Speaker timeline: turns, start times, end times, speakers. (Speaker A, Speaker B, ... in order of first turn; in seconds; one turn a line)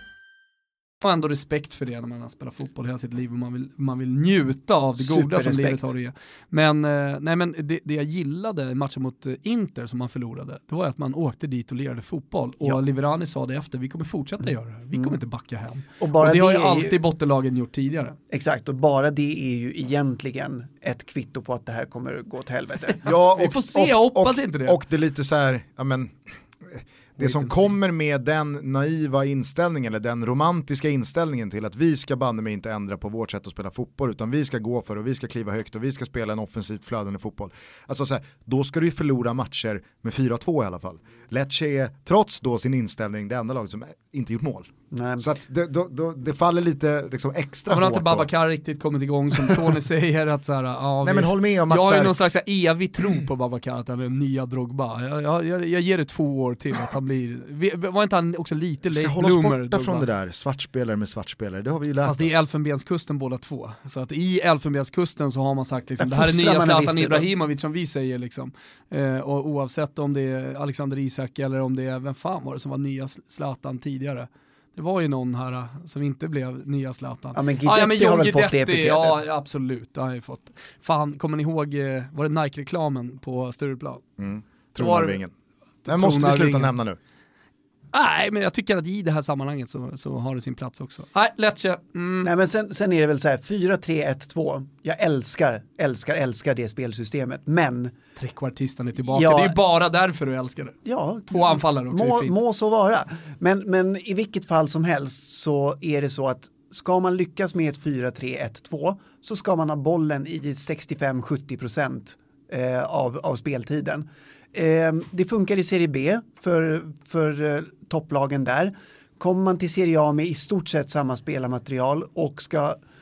Speaker A: 1.0-18.1
Speaker B: 5.0-5.9
Speaker B: 16.0-17.0
Speaker B: 18.3-23.0
Speaker C: 23.0-48.3
Speaker A: 23.3-24.8
Speaker A: 27.2-27.7
Speaker B: 44.9-45.2
Speaker A: 47.7-60.0
Speaker C: 51.0-52.2
Speaker C: 58.9-62.3
Speaker A: 62.0-84.0
Speaker B: 66.0-67.3
Speaker B: 77.3-79.2
Speaker C: 84.2-85.3
Speaker A: 84.8-85.2
Speaker A: 85.8-86.7
Speaker C: 85.8-87.0
Speaker A: 87.9-92.3
Speaker B: 92.2-97.9
Speaker A: 98.2-100.7
Speaker B: 99.0-99.6
Speaker B: 100.8-122.8
Speaker A: 101.3-102.3